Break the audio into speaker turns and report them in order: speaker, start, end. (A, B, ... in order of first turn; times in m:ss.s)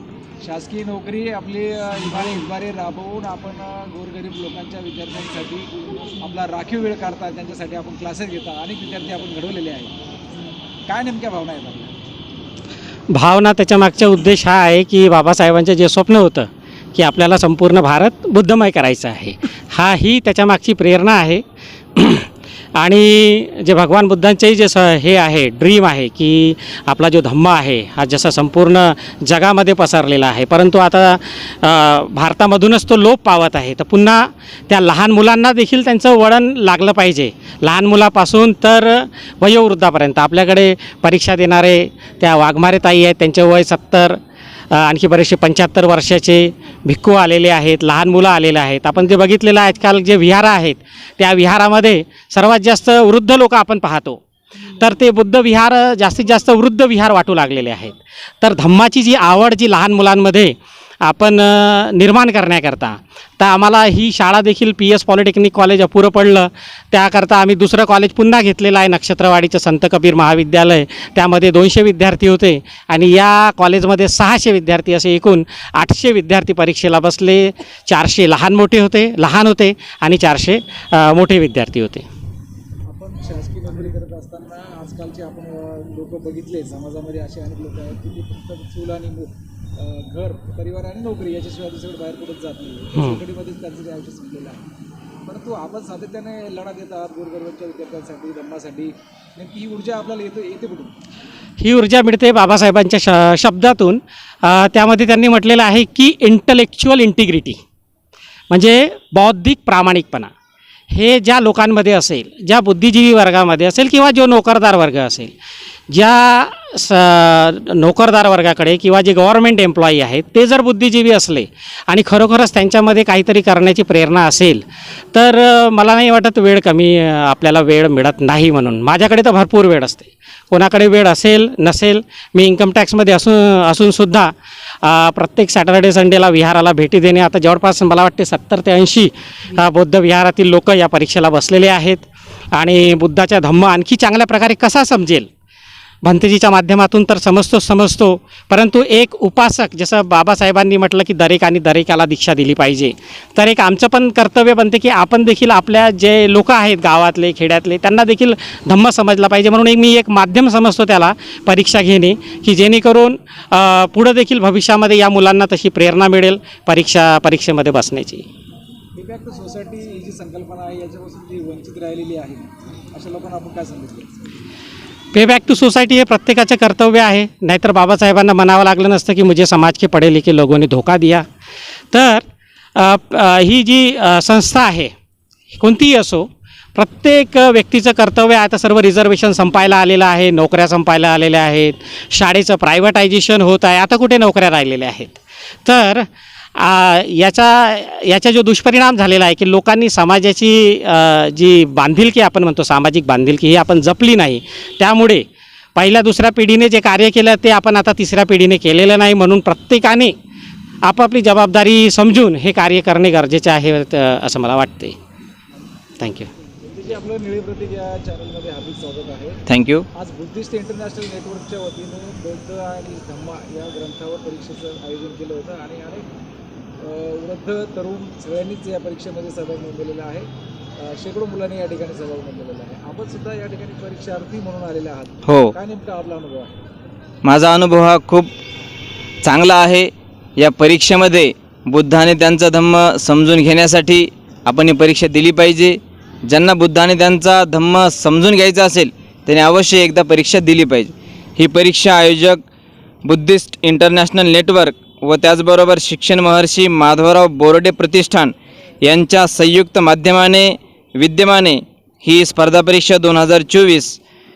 0:00.4-0:09.9 A
0:10.9-0:11.9 A
0:13.1-0:21.4 B
0:22.0-0:22.3 B
0:22.8-0:44.2 B
0:44.7-0:54.2 B
0:54.8-1:22.0 B
1:22.9-1:34.6 A
1:32.9-1:33.2 B
1:35.3-1:40.9 A
1:41.6-1:47.6 B
1:48.5-1:50.3 B
1:50.9-1:55.3 B
1:55.9-2:04.6 B
2:05.1-2:14.3 B
2:14.8-2:25.3 B
2:26.0-2:48.2 B
2:49.0-2:54.2 A
2:55.1-3:01.2 B
3:01.9-3:02.2 B
3:02.8-3:04.9 B
3:05.6-3:16.0 B
3:16.6-3:25.2 B
3:25.8-3:30.1 B
3:30.8-3:35.0 B
3:36.0-3:36.3 B
3:36.2-3:39.4 A
3:39.5-3:39.8 C
3:40.0-3:46.1 A
3:46.8-3:50.3 A
3:50.8-3:56.6 A
3:55.2-3:55.5 C
3:57.2-3:58.3 C
3:59.2-4:12.4 C
4:13.1-4:24.0 C